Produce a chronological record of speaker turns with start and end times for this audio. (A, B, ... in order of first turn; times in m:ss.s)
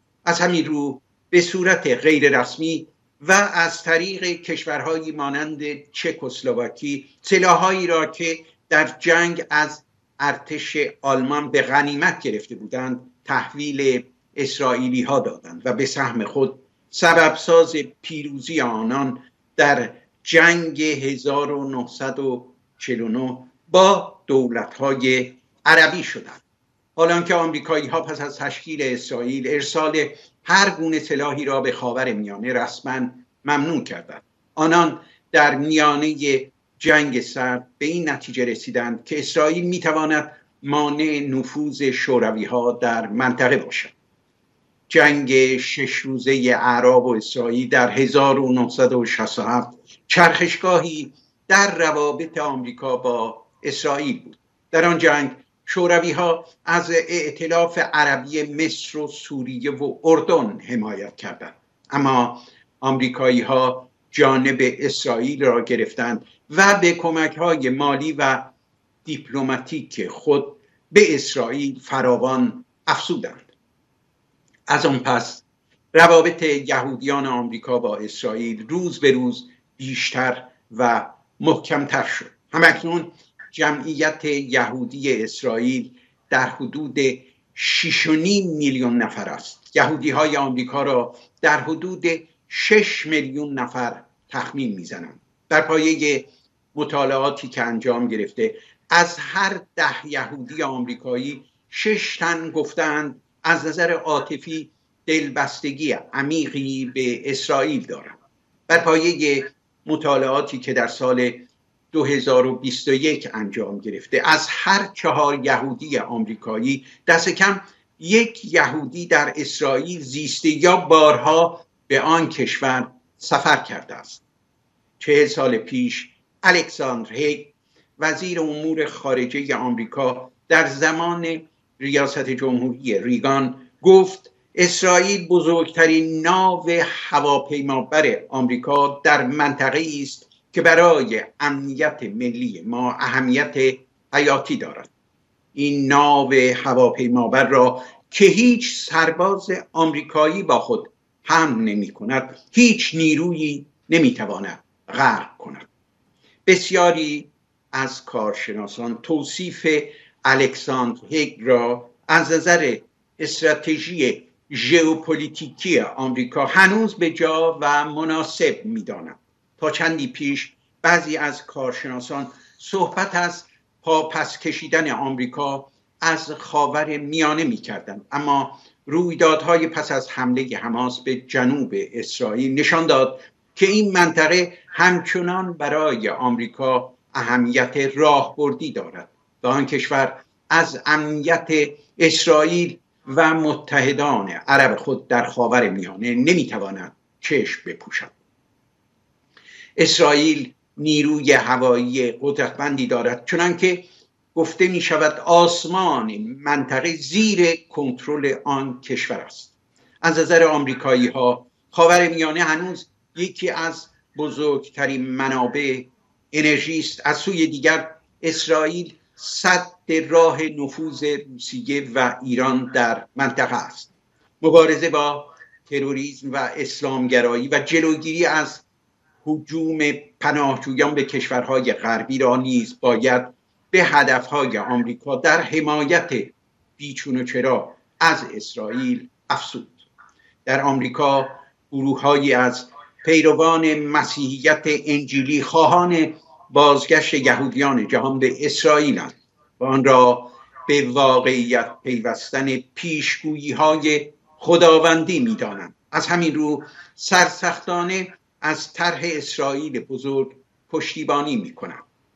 0:00.2-0:26.4 A
0:27.0-0:43.9 A
0:44.9-1:08.5 A
1:09.0-1:13.5 A
1:14.7-2:04.2 A
2:05.0-2:24.9 A
2:25.6-2:35.7 A
2:36.4-3:18.2 A
3:19.8-3:48.7 A
3:49.2-3:59.8 A
4:00.4-4:21.8 A